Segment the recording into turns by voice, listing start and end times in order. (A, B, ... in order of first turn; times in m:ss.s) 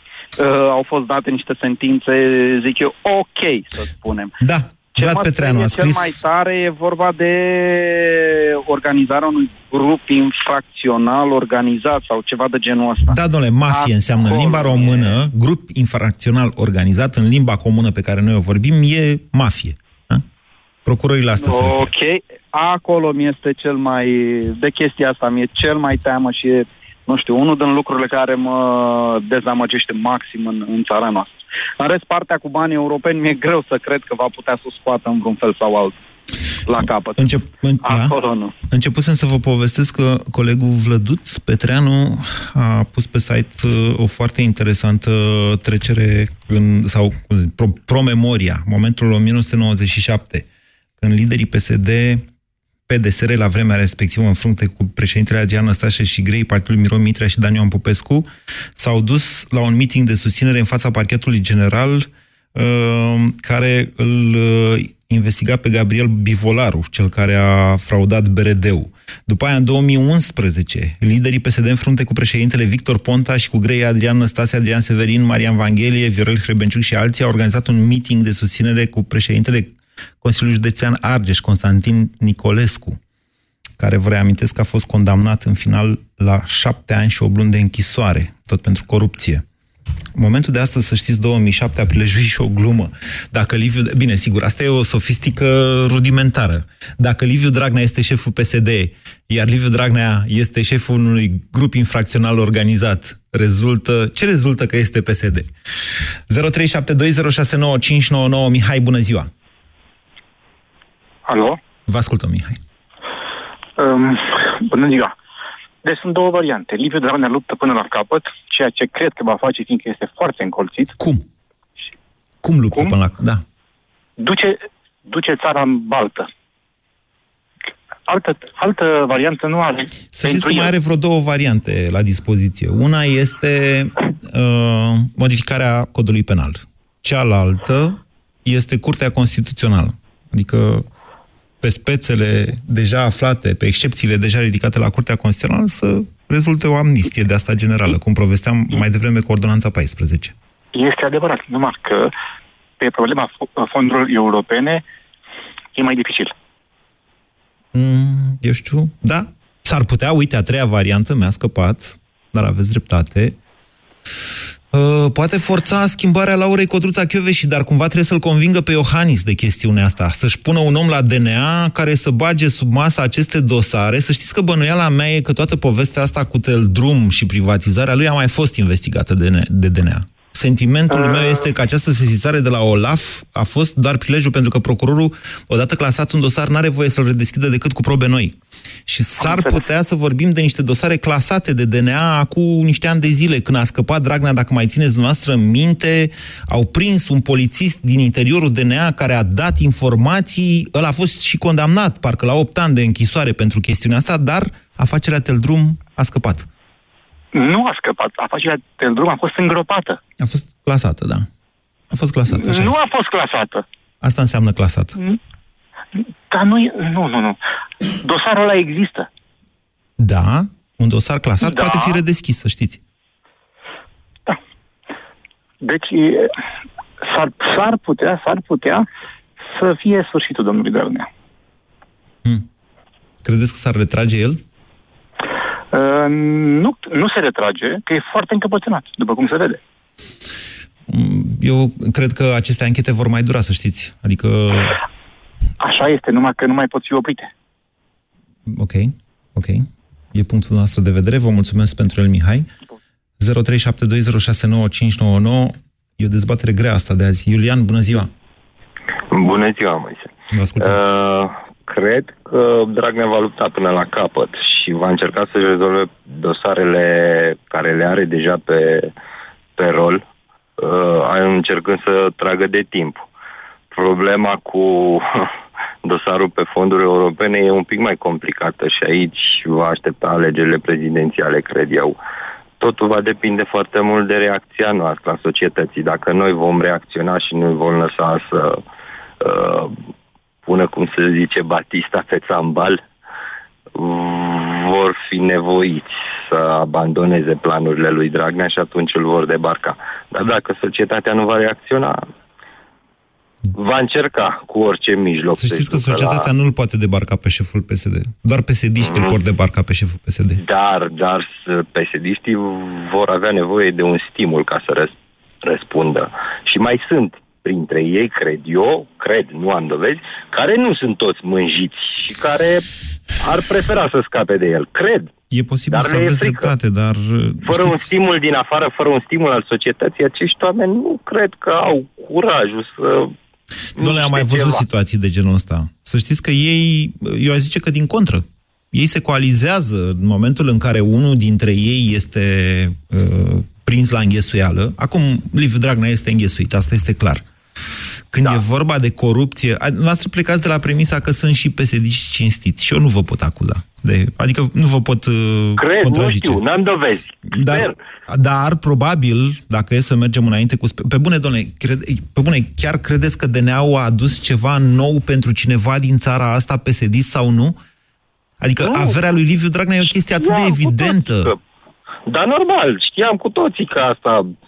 0:00.4-0:04.3 A
0:04.4-0:06.2 B
0:04.9-0:13.2 A
0:13.1-0:20.2 B
0:13.7-0:15.2 A
0:20.8-0:21.9 B
0:21.4-0:35.9 A
0:36.6-0:37.3 A
0:37.2-0:38.2 B
0:37.8-0:38.5 A
0:38.7-0:50.5 B
0:51.0-0:52.2 B
0:52.9-1:23.0 B
1:23.8-1:29.4 B
1:30.2-1:45.5 B
1:46.3-1:49.3 B
1:51.3-1:51.6 C
1:51.9-1:52.6 B
1:53.8-1:55.1 C
1:55.8-2:00.9 C
2:01.0-2:01.2 B
2:02.4-2:03.4 B
2:04.2-2:06.3 C
2:08.1-2:10.7 C
2:10.1-2:20.8 B
2:21.6-2:30.3 B
2:30.7-2:32.1 C
2:32.8-2:34.8 C
2:35.7-2:36.3 C
2:37.7-2:43.4 B
2:44.7-3:08.3 B
3:00.9-3:01.4 C
3:08.9-3:26.5 B
3:09.2-3:09.6 C
3:27.3-3:30.0 C
3:30.2-3:31.3 B
3:31.9-3:32.8 B
3:32.3-3:33.6 C
3:34.0-3:35.0 B
3:36.3-3:37.4 C
3:38.0-3:39.1 C
3:40.0-3:42.8 B
3:41.4-3:42.0 C
3:45.6-3:46.3 C
3:47.0-3:48.8 C
3:49.4-3:51.1 C
3:53.2-3:54.4 B
3:55.7-3:59.6 C
4:00.9-4:04.8 B
4:05.6-4:07.3 C
4:08.5-4:12.5 B
4:13.2-4:18.1 B
4:19.1-4:28.9 D
4:20.3-4:20.8 B
4:29.6-4:30.0 D
4:30.6-4:33.1 D
4:33.7-4:35.2 D
4:35.8-4:42.0 D
4:42.6-4:48.6 D
4:49.2-4:49.8 D
4:50.4-4:52.8 D
4:53.8-5:02.0 D
5:03.5-5:06.3 D
5:05.3-5:10.4 B
5:08.8-5:09.2 D
5:10.4-5:22.6 D
5:23.2-5:25.1 D
5:25.3-5:28.0 B
5:25.7-5:26.5 D
5:27.4-5:33.1 D
5:33.8-5:47.2 B
5:33.8-5:34.6 D
5:48.1-5:56.4 B
5:55.6-5:57.7 D
5:57.3-6:07.6 B
6:08.4-6:11.3 B
6:08.6-6:09.0 D
6:10.2-6:11.4 D
6:12.1-6:14.3 D